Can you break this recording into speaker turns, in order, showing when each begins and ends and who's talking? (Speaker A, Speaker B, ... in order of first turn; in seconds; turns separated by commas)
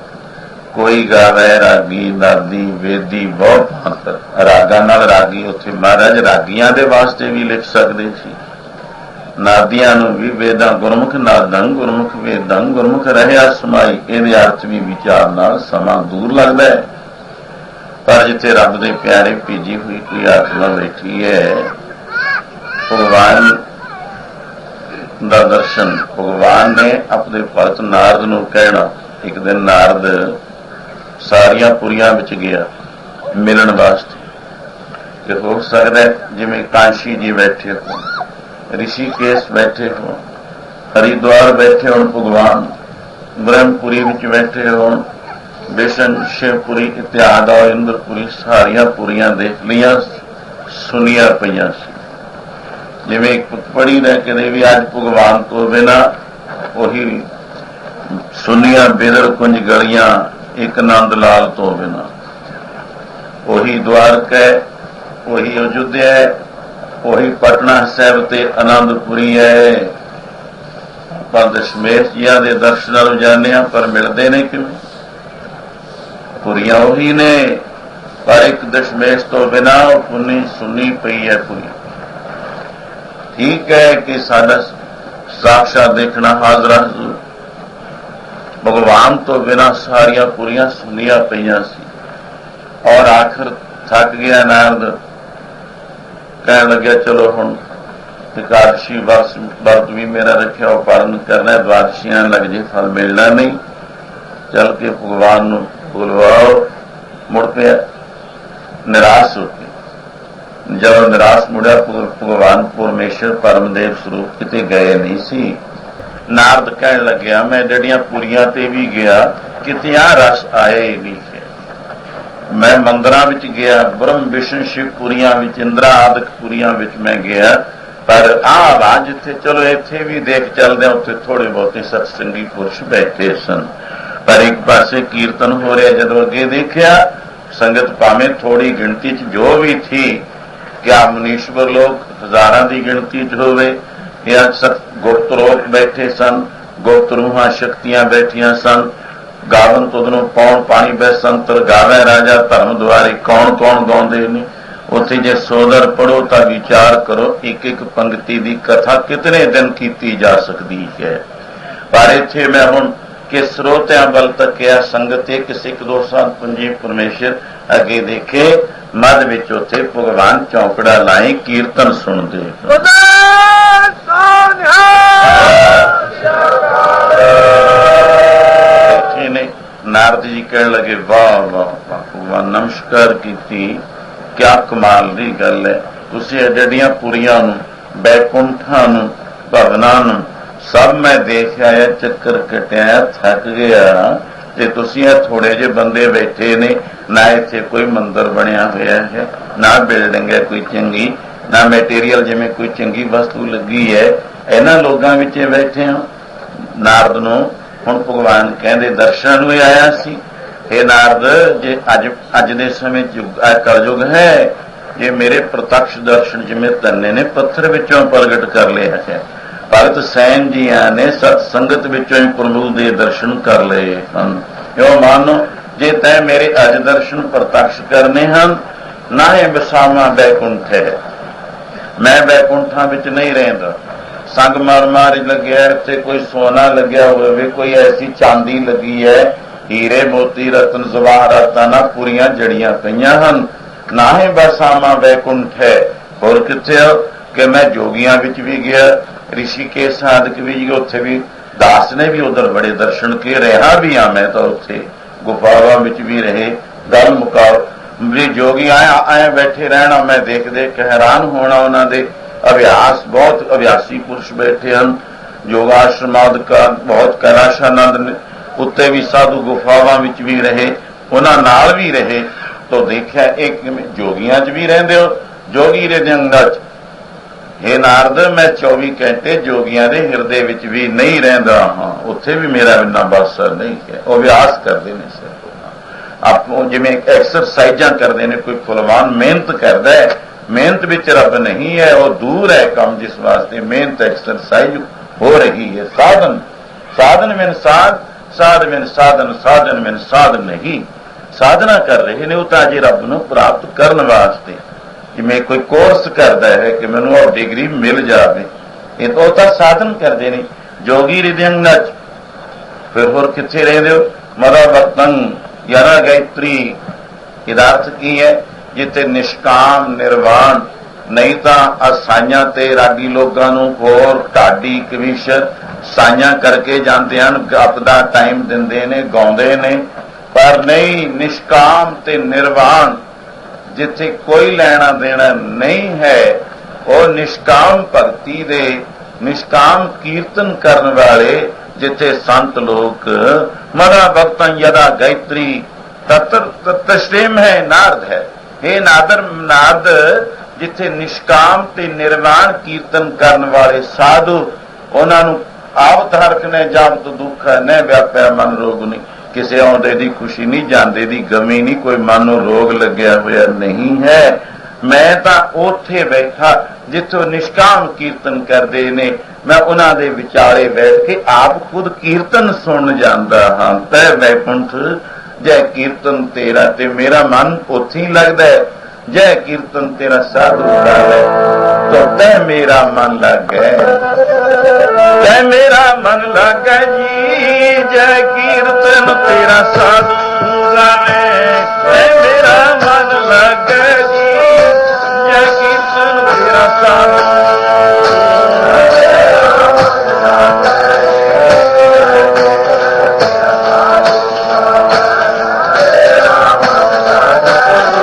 Speaker A: 0.7-8.4, Speaker A: 9.4-16.9, Speaker A: 18.0-21.7, Speaker A: 22.9-23.6, Speaker A: 25.2-30.4, Speaker A: 31.2-32.7, Speaker A: 33.3-34.3, Speaker A: 35.2-38.1, Speaker A: 38.7-40.2, Speaker A: 40.9-42.7, Speaker A: 43.4-45.1, Speaker A: 45.7-50.2, Speaker A: 50.7-52.0, Speaker A: 53.0-56.1, Speaker A: 56.7-57.3, Speaker A: 58.3-62.1, Speaker A: 63.4-64.6, Speaker A: 65.2-66.4, Speaker A: 67.0-69.9, Speaker A: 71.2-74.8, Speaker A: 76.4-77.6, Speaker A: 78.2-81.7, Speaker A: 83.3-84.7, Speaker A: 85.3-87.2, Speaker A: 88.6-91.9, Speaker A: 92.8-95.0, Speaker A: 96.4-97.6, Speaker A: 98.3-103.6, Speaker A: 104.5-106.7, Speaker A: 107.3-107.8, Speaker A: 108.8-109.7, Speaker A: 110.7-115.6, Speaker A: 116.3-121.5, Speaker A: 122.5-133.7, Speaker A: 134.2-140.2, Speaker A: 140.8-148.9, Speaker A: 149.4-161.2, Speaker A: 161.9-173.1, Speaker A: 178.7-183.8, Speaker A: 184.3-206.1, Speaker A: 206.6-231.0, Speaker A: 232.0-276.6, Speaker A: 277.6-304.6, Speaker A: 305.1-311.9, Speaker A: 312.9-316.8, Speaker A: 317.4-333.0, Speaker A: 333.7-381.3, Speaker A: 381.9-384.1, Speaker A: 385.1-399.0